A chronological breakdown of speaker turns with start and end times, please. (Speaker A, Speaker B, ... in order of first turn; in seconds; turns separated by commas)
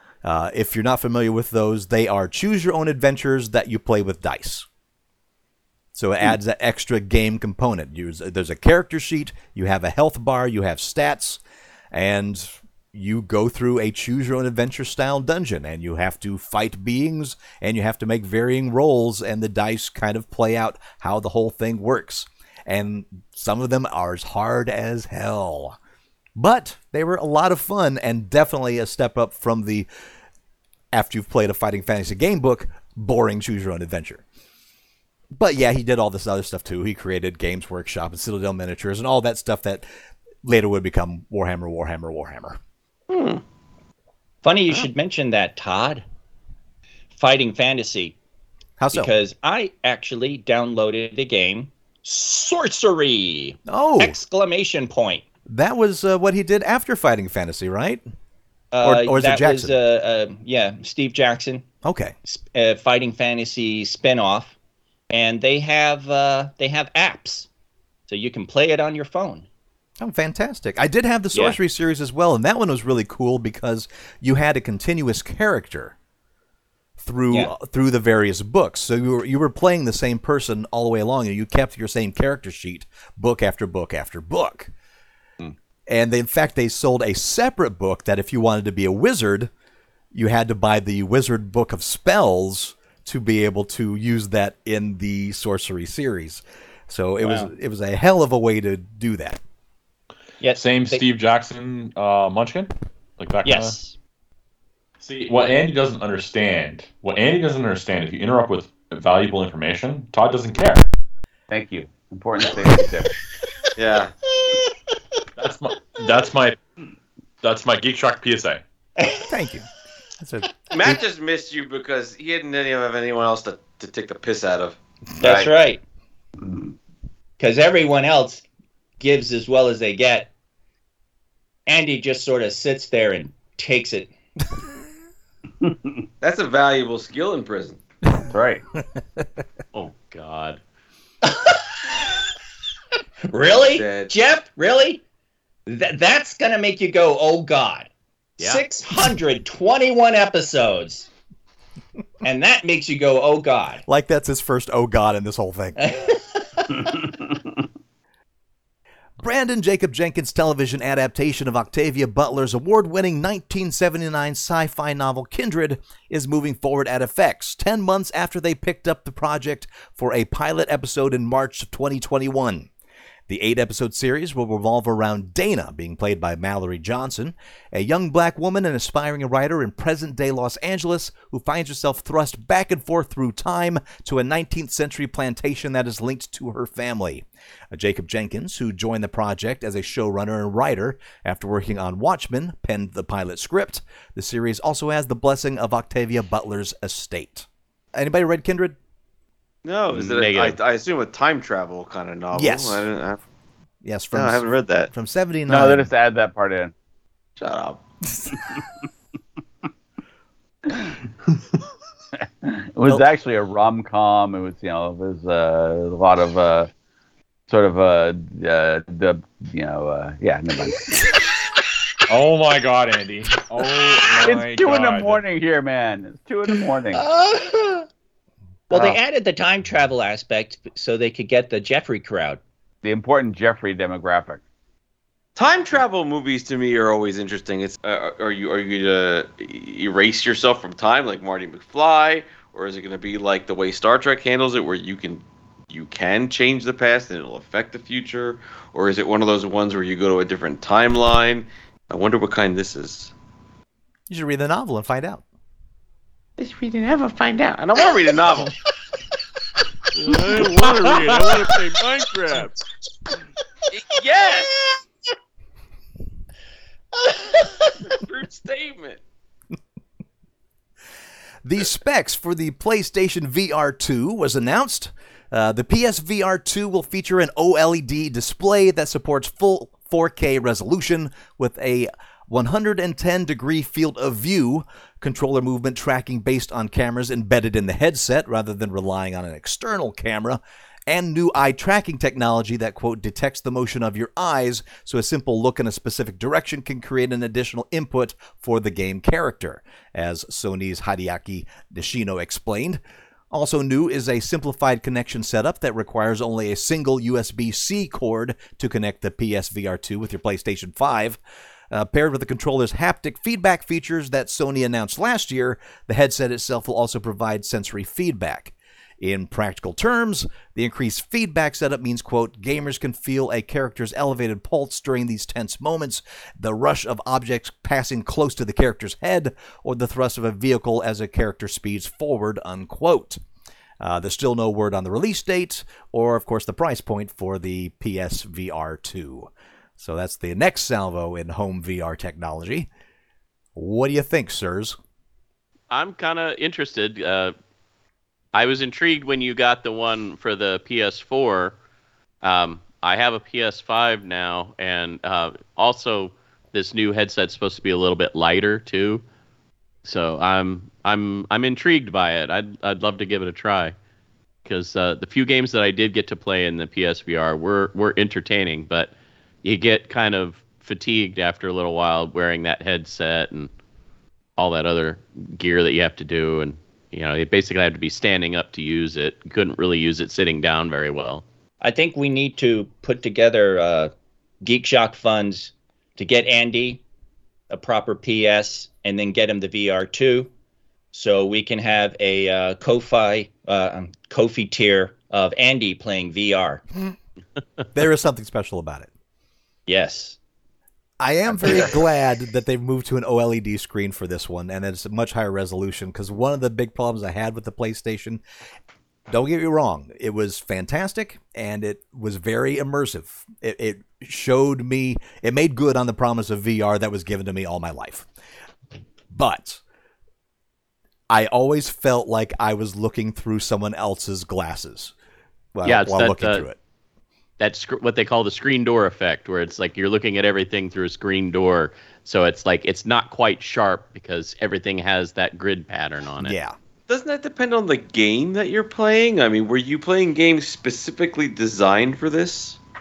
Speaker A: 0.2-4.7, Speaker A: 5.9-11.4, Speaker A: 11.9-25.8, Speaker A: 26.4-29.9, Speaker A: 30.9-34.2, Speaker A: 35.3-39.8, Speaker A: 40.4-42.6, Speaker B: 43.1-43.4, Speaker C: 44.4-46.0, Speaker C: 47.1-48.1, Speaker A: 48.8-49.1, Speaker C: 48.9-55.2, Speaker A: 53.7-54.2, Speaker A: 55.5-58.0, Speaker C: 58.7-61.6, Speaker A: 58.8-59.8, Speaker A: 61.8-62.1, Speaker C: 62.3-64.5, Speaker C: 65.1-67.5, Speaker C: 68.1-69.5, Speaker A: 70.0-75.9, Speaker A: 77.0-84.7, Speaker A: 85.9-89.5, Speaker A: 90.1-99.4, Speaker C: 97.2-97.5, Speaker C: 100.4-101.0, Speaker D: 100.5-103.8, Speaker C: 103.4-103.9, Speaker D: 105.0-110.9, Speaker E: 111.5-113.1, Speaker B: 113.8-114.1, Speaker C: 114.3-115.0, Speaker D: 115.4-116.6, Speaker D: 117.4-118.6, Speaker C: 119.0-119.3, Speaker A: 119.3-119.7, Speaker A: 120.2-120.9, Speaker B: 120.7-124.8, Speaker C: 125.2-125.8, Speaker E: 125.2-125.5, Speaker E: 126.4-126.7, Speaker C: 127.4-128.4, Speaker C: 129.0-130.3, Speaker C: 131.7-134.1, Speaker E: 135.6-135.9, Speaker B: 136.2-137.8, Speaker E: 138.3-138.6, Speaker F: 139.7-140.6, Speaker C: 141.2-141.6, Speaker C: 143.3-145.0, Speaker B: 143.4-144.1, Speaker C: 145.7-151.1, Speaker C: 152.2-153.8, Speaker A: 153.9-155.8, Speaker C: 155.8-157.0, Speaker A: 159.2-172.7, Speaker A: 173.3-198.8, Speaker B: 199.6-203.2, Speaker F: 199.9-200.6, Speaker A: 202.3-202.8, Speaker A: 203.8-205.9, Speaker B: 204.1-204.9, Speaker E: 205.5-206.7, Speaker B: 207.4-207.8, Speaker E: 212.4-216.7, Speaker E: 217.5-221.0, Speaker D: 222.1-225.2, Speaker E: 224.2-227.0, Speaker C: 226.9-227.9, Speaker C: 228.7-232.4, Speaker B: 228.7-229.0, Speaker E: 232.8-234.4, Speaker B: 235.3-253.1, Speaker A: 254.1-255.2, Speaker B: 256.4-258.6, Speaker F: 259.9-262.6, Speaker D: 260.4-261.2, Speaker B: 263.7-264.5, Speaker C: 266.9-267.7, Speaker B: 267.8-269.0, Speaker A: 271.4-302.8, Speaker A: 303.3-311.2, Speaker A: 311.7-333.2, Speaker A: 333.8-342.7, Speaker A: 343.6-344.8, Speaker F: 345.7-347.3, Speaker F: 348.3-351.6, Speaker F: 352.2-359.0, Speaker F: 359.8-363.7, Speaker F: 364.4-368.9, Speaker F: 369.4-373.5, Speaker F: 374.4-381.2, Speaker C: 381.6-383.9, Speaker C: 384.4-386.8, Speaker C: 387.5-390.3, Speaker C: 390.9-396.6, Speaker A: 397.7-398.9, Speaker C: 399.7-400.2, Speaker A: 401.0-408.2, Speaker A: 409.1-418.1, Speaker A: 419.1-419.6, Speaker A: 421.1-424.9, Speaker A: 425.5-426.6, Speaker F: 425.6-426.4, Speaker F: 427.4-436.3, Speaker A: 436.2-436.5, Speaker B: 436.9-442.6